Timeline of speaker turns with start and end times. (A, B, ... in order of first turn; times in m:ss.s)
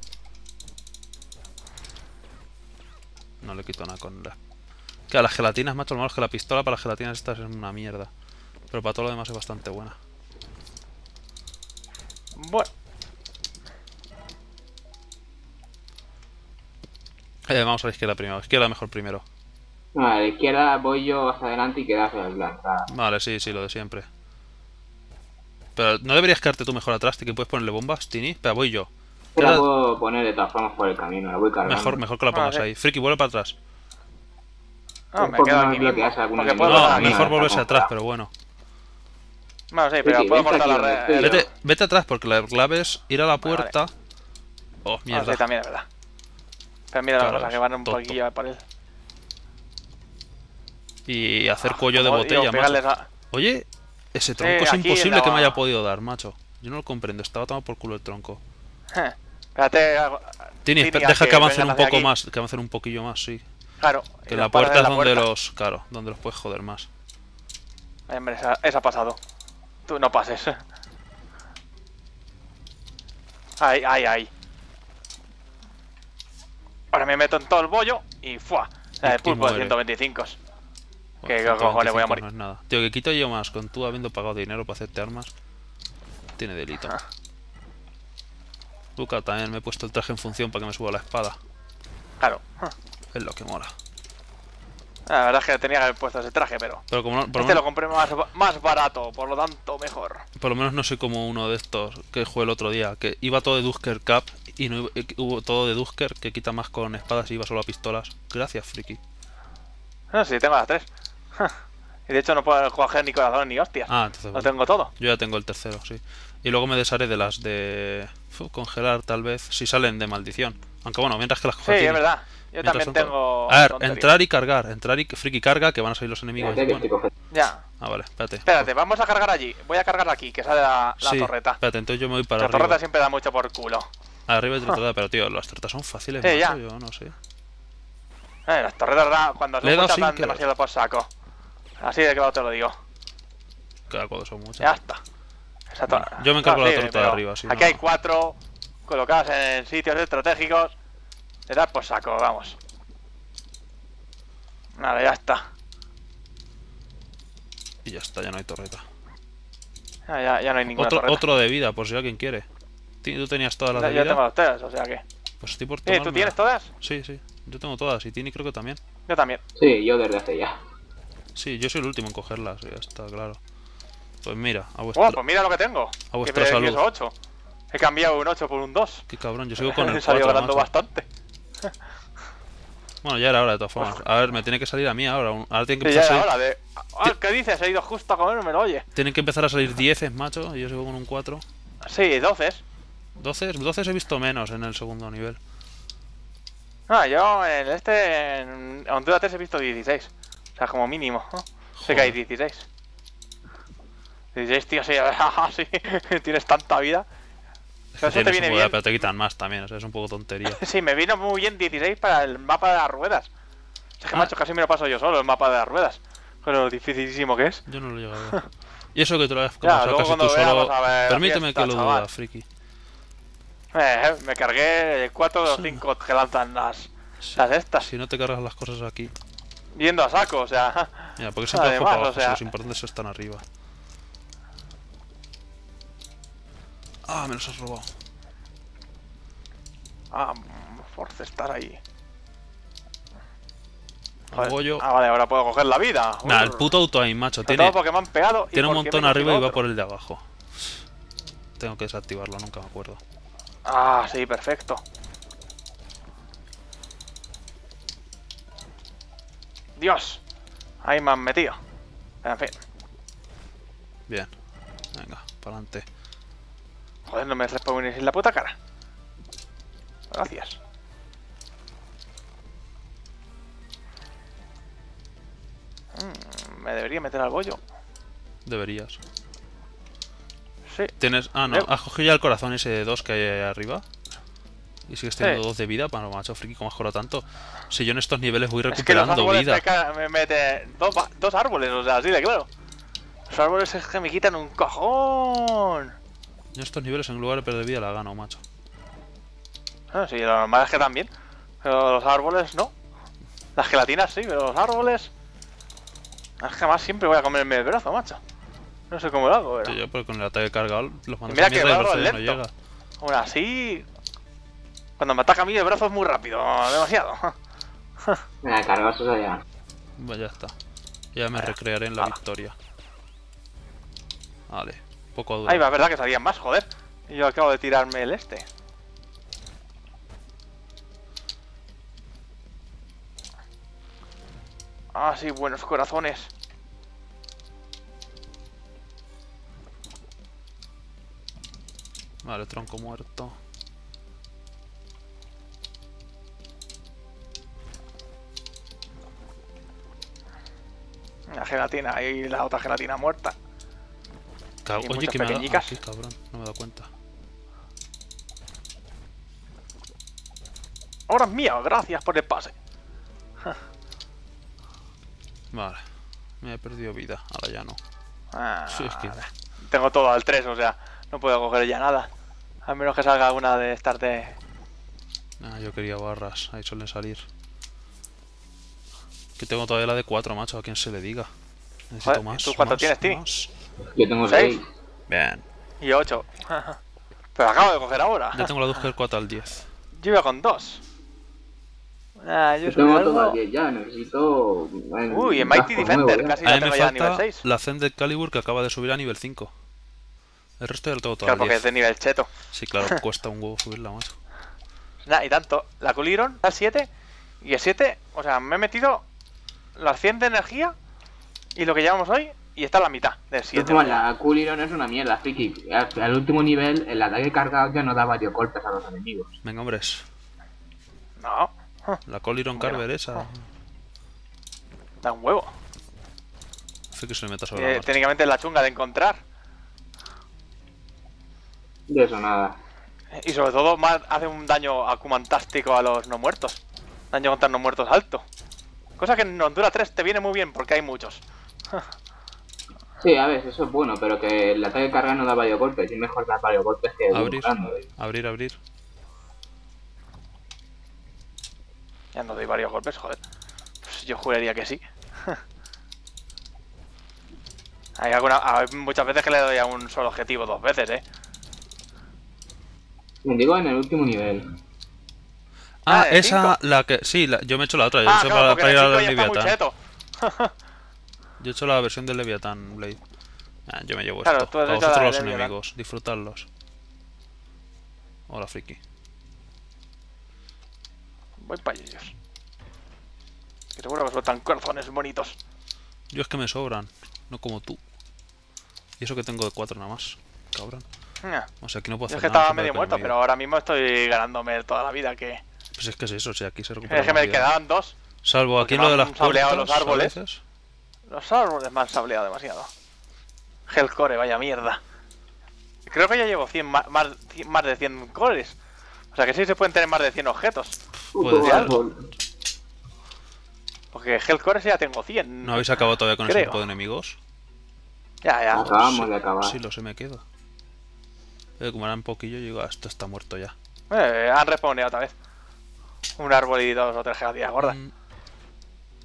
0:03.4-0:04.4 A
0:05.1-0:08.1 A
0:08.7-0:10.0 A
0:12.3-0:12.7 B
0:17.5-0:19.2 A
0:19.9-0:22.9 C
0:22.9-0:24.1 A
0:25.8-0:29.6 A
0:29.3-0:32.0 C
0:31.6-0:33.6 A
0:32.3-0:32.6 B
0:35.1-0:37.4 B
0:35.2-0:37.9 C
0:36.6-0:38.3 A
0:39.7-0:41.5 B
0:40.0-0:41.5 C
0:41.1-0:43.9 A
0:43.4-0:43.7 B
0:44.8-0:45.4 A
0:45.1-0:45.9 B
0:46.9-0:48.6 B
0:47.2-0:48.2 A
0:51.1-0:58.4 A
0:51.6-0:53.1 B
0:54.4-0:55.6 B
0:58.9-1:02.1 B
1:00.6-1:03.4 A
1:03.8-1:05.3 B
1:04.3-1:06.9 A
1:08.1-1:09.2 B
1:09.8-1:10.6 B
1:13.6-1:14.3 B
1:16.9-1:20.4 B
1:19.0-1:19.8 A
1:21.2-1:25.3 A
1:21.2-1:22.2 B
1:26.4-1:27.0 A
1:29.0-1:31.4 A
1:32.2-1:32.7 B
1:33.1-1:33.7 A
1:35.1-1:40.2 B
1:36.9-1:37.6 A
1:40.4-1:49.0 A
1:50.1-1:54.9 B
1:53.9-2:02.0 A
2:01.6-2:04.1 B
2:02.6-2:06.9 A
2:06.4-2:07.1 C
2:07.3-2:07.6 B
2:07.8-2:08.7 A
2:08.4-2:11.6 B
2:11.0-2:12.8 A
2:12.4-2:13.9 B
2:14.3-2:17.1 A
2:16.2-2:16.6 B
2:18.4-2:21.1 B
2:19.6-2:20.4 A
2:21.8-2:22.7 B
2:23.9-2:24.7 A
2:24.6-2:25.0 B
2:25.7-2:30.7 B
2:25.9-2:27.8 A
2:31.5-2:32.6 B
2:34.8-2:35.4 B
2:37.8-2:38.8 A
2:40.0-2:41.2 B
2:40.7-2:42.4 A
2:43.0-2:44.2 A
2:43.7-2:45.0 B
2:45.4-2:48.8 A
2:45.8-2:46.7 B
2:49.1-2:49.4 B
2:49.6-2:50.6 C
2:51.3-2:53.4 A
2:54.2-2:55.2 A
2:54.9-2:57.1 B
2:56.1-2:56.8 A
2:57.7-2:59.0 B
2:59.1-3:00.7 A
2:59.6-3:01.0 B
3:03.0-3:06.3 A
3:03.8-3:04.0 B
3:05.8-3:08.8 B
3:08.9-3:11.4 A
3:11.8-3:12.6 B
3:13.2-3:15.4 A
3:16.9-3:22.6 B
3:21.8-3:22.2 A
3:24.3-3:27.0 B
3:27.9-3:30.6 A
3:28.0-3:28.8 B
3:30.5-3:33.3 B
3:34.0-3:37.6 B
3:37.7-3:38.4 A
3:38.9-3:42.4 A
3:39.6-3:42.1 B
3:43.7-3:47.9 B
3:45.5-3:45.8 A
3:47.2-3:49.1 A
3:49.7-3:52.4 B
3:51.2-3:53.4 A
3:57.0-3:57.9 A
4:00.1-4:01.8 B
4:04.3-4:04.8 A
4:04.3-4:06.7 B
4:06.2-4:07.8 A
4:07.4-4:09.6 B
4:08.5-4:10.8 A
4:11.6-4:13.0 A
4:13.6-4:14.8 B
4:19.8-4:20.2 B
4:20.8-4:21.6 B
4:22.2-4:22.6 B
4:24.9-4:25.8 A
4:27.1-4:28.5 B
4:30.1-4:30.6 B
4:35.9-4:37.6 B
4:38.4-4:39.0 A
4:40.7-4:40.9 B
4:41.0-4:43.8 A
4:44.9-4:49.6 A
4:48.7-4:52.5 B
4:53.3-4:55.9 B
4:56.6-4:58.4 A
4:59.9-5:01.1 B
5:01.6-5:02.7 B
5:03.6-5:05.1 B
5:06.4-5:08.2 B
5:08.9-5:09.8 B
5:09.6-5:12.5 A
5:11.3-5:12.4 B
5:13.0-5:13.8 B
5:15.0-5:17.3 B
5:18.4-5:19.4 C
5:20.0-5:20.5 A
5:21.1-5:22.5 A
5:21.3-5:22.2 B
5:24.5-5:25.6 A
5:25.4-5:28.4 B
5:34.9-5:36.3 B
5:42.2-5:43.3 A
5:51.3-5:53.3 B
5:54.6-5:56.9 A
5:54.8-5:55.8 B
6:01.1-6:02.5 B
6:05.5-6:05.8 A
6:06.4-6:07.8 A
6:08.3-6:12.1 B
6:08.7-6:09.2 A
6:12.6-6:14.4 B
6:15.4-6:17.2 A
6:19.4-6:21.3 A
6:21.9-6:23.5 A
6:22.0-6:23.2 B
6:23.9-6:24.6 C
6:24.2-6:24.6 B
6:25.1-6:25.4 A
6:25.8-6:26.8 B
6:27.4-6:28.5 B
6:28.3-6:29.6 A
6:29.9-6:30.8 B
6:32.2-6:33.4 B
6:32.6-6:36.4 C
6:35.1-6:37.4 B
6:36.4-6:39.5 A
6:40.6-6:41.6 A
6:41.2-6:43.0 B
6:42.5-6:44.1 A
6:45.0-6:46.9 B
6:47.4-6:49.0 B
6:49.8-6:50.7 B
6:51.6-6:54.0 B
6:53.5-6:59.3 C
6:59.4-7:00.0 A
7:01.2-7:02.0 B
7:02.1-7:03.4 A
7:02.5-7:03.3 B
7:05.0-7:05.5 B
7:06.9-7:07.9 A
7:07.5-7:09.2 B
7:11.9-7:12.6 C
7:13.1-7:16.6 B
7:17.1-7:18.2 B
7:19.0-7:21.8 B
7:23.0-7:27.8 C
7:27.1-7:28.6 A
7:32.1-7:33.2 B
7:33.8-7:35.4 B
7:38.0-7:41.0 B
7:43.2-7:44.5 C
7:45.8-7:49.6 A
7:45.9-7:46.6 B
7:48.0-7:50.5 B
7:51.4-7:53.0 A
7:53.7-7:56.5 A
7:54.2-7:55.5 B
7:58.3-7:58.8 A
8:01.4-8:02.1 B
8:03.7-8:05.4 B
8:06.1-8:07.8 A
8:09.0-8:10.8 A
8:11.2-8:11.5 B
8:11.6-8:13.2 A
8:12.1-8:15.4 B
8:15.8-8:17.5 A
8:16.9-8:18.0 B
8:18.2-8:20.4 A
8:18.6-8:20.1 B
8:21.1-8:22.7 B
8:23.7-8:24.8 B
8:25.9-8:28.6 B
8:29.1-8:30.7 B
8:31.1-8:32.1 C
8:31.2-8:31.8 A
8:31.3-8:31.8 B
8:33.9-8:35.7 B
8:35.4-8:37.2 A
8:36.2-8:36.6 B
8:38.2-8:39.0 B
8:38.5-8:39.6 C
8:39.0-8:40.2 A
8:41.6-8:43.5 A
8:43.9-8:45.1 B
8:46.2-8:47.8 B
8:47.6-8:47.9 A